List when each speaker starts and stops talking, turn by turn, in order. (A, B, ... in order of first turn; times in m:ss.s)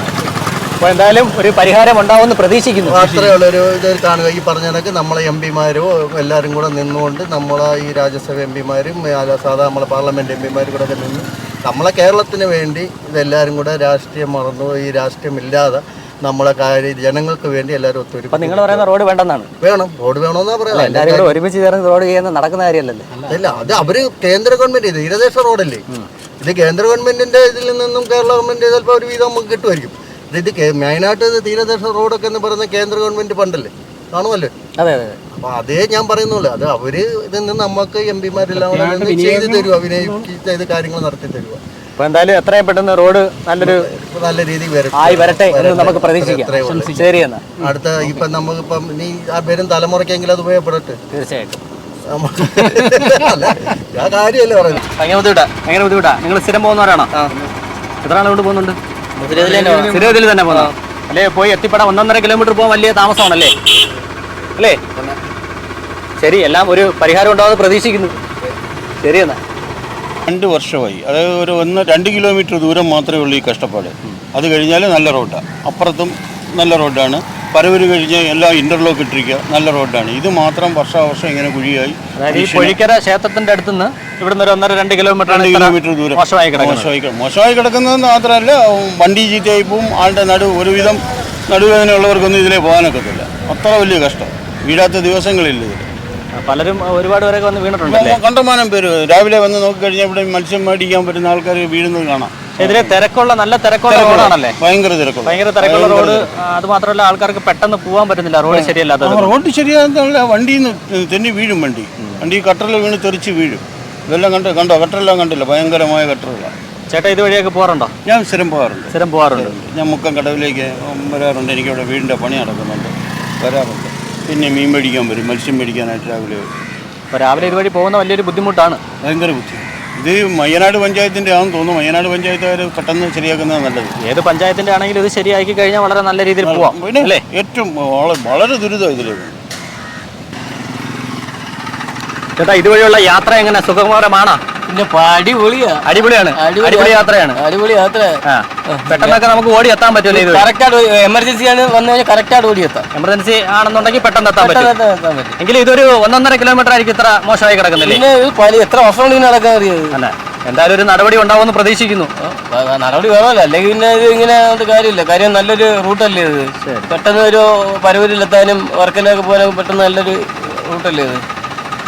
0:00.8-0:03.1 A
0:02.8-0:18.9 B
0:18.3-0:19.5 A
0:19.6-0:21.4 B
0:20.7-0:23.1 A
0:23.3-0:25.8 B
0:26.4-0:34.5 B
0:34.8-0:35.2 A
0:35.4-0:41.6 B
0:42.0-0:43.9 A
0:43.6-0:51.0 B
0:45.0-0:47.5 A
0:51.1-0:51.6 A
0:52.1-0:54.8 B
0:54.9-0:55.5 C
0:55.6-0:57.1 A
0:58.0-0:58.8 A
0:59.2-1:00.7 C
0:59.7-1:03.5 A
1:06.2-1:08.2 A
1:09.0-1:09.4 A
1:10.3-1:22.8 D
1:22.2-1:26.9 A
1:25.3-1:35.9 D
1:36.4-1:38.2 A
1:37.8-1:43.0 D
1:42.6-1:44.6 A
1:43.9-1:46.3 D
1:45.2-1:49.3 A
1:48.5-1:56.5 D
1:56.9-1:57.9 A
1:58.1-2:06.5 D
1:58.9-1:59.5 A
2:07.1-2:08.8 A
2:09.0-2:13.9 D
2:14.0-2:17.2 A
2:16.4-2:19.4 D
2:22.4-2:24.4 A
2:24.7-2:29.2 C
2:25.9-2:27.4 A
2:28.2-2:30.4 A
2:30.1-2:32.9 C
2:32.9-2:34.7 A
2:34.4-2:35.4 C
2:35.4-2:38.0 A
2:37.8-2:39.9 C
2:39.9-2:42.1 A
2:42.2-2:51.2 C